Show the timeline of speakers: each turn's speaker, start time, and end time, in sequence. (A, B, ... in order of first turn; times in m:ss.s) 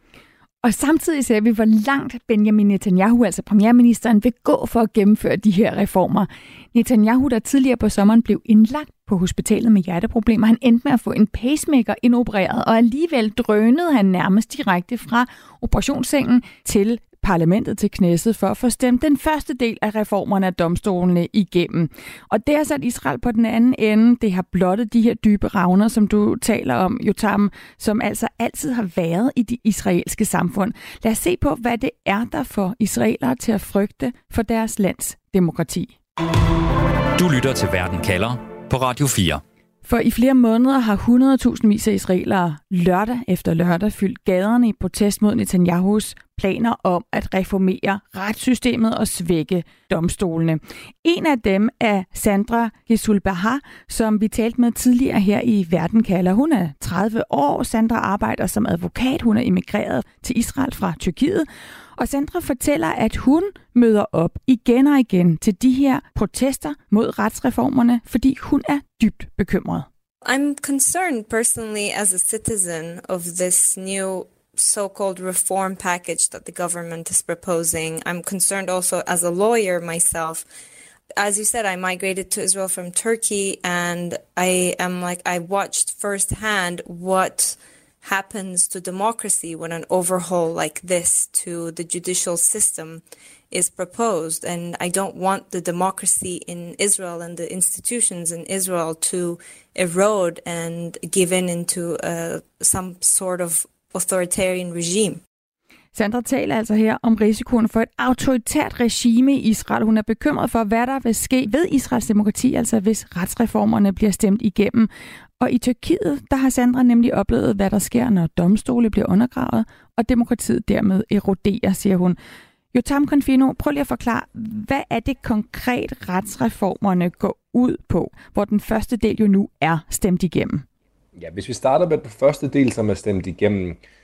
0:00.6-0:36.0 A
0:37.1-0:39.4 B
0:39.8-1:01.4 A
1:02.0-1:09.9 A
1:10.2-1:20.4 C
1:21.2-1:45.2 C
1:45.9-2:02.2 A
2:02.7-2:10.6 A
2:11.2-2:13.8 D